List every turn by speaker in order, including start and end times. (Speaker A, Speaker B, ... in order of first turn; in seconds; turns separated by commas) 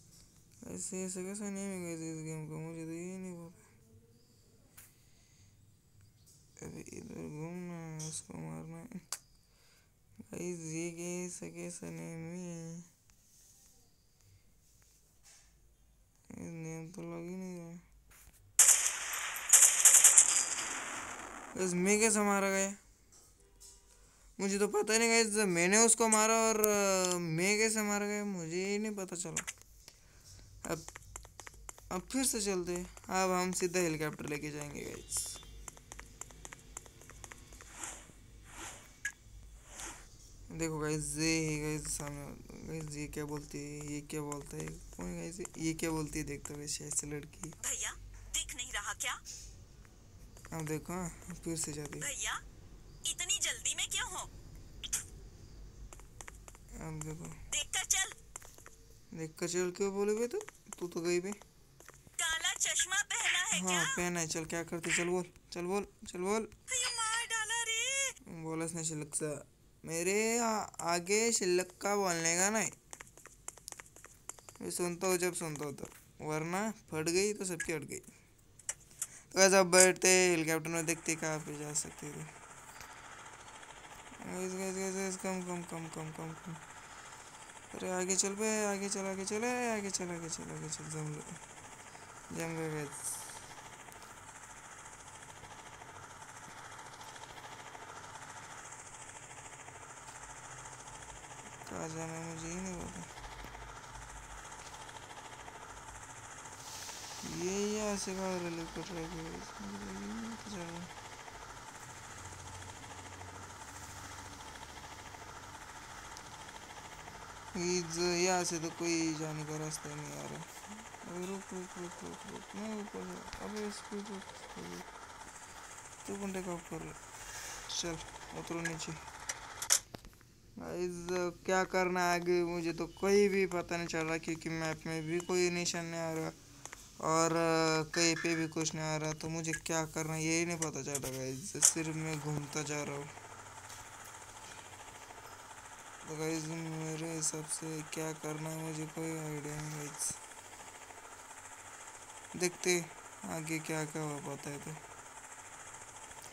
Speaker A: 0.6-3.7, Speaker A: 6.6-9.0, Speaker A: 10.3-12.9, Speaker A: 16.3-17.8, Speaker A: 21.5-22.8, Speaker A: 24.4-29.5, Speaker A: 30.6-30.9, Speaker A: 31.9-35.4, Speaker A: 40.5-47.6, Speaker B: 47.6-49.2, Speaker A: 50.5-52.1, Speaker B: 52.0-52.4, Speaker B: 53.0-54.3, Speaker A: 56.7-57.4, Speaker B: 57.5-58.2, Speaker A: 59.1-61.4, Speaker B: 62.2-64.0, Speaker A: 63.5-66.5, Speaker B: 66.7-68.2, Speaker A: 68.2-72.7, Speaker A: 74.6-78.0, Speaker A: 79.3-82.3, Speaker A: 84.2-86.6, Speaker A: 87.7-91.4, Speaker A: 92.3-93.2, Speaker A: 101.6-103.1, Speaker A: 107.2-110.9, Speaker A: 117.5-124.9, Speaker A: 126.0-127.0, Speaker A: 127.7-129.0, Speaker A: 130.6-136.4, Speaker A: 137.0-143.1, Speaker A: 146.0-150.2, Speaker A: 152.3-154.8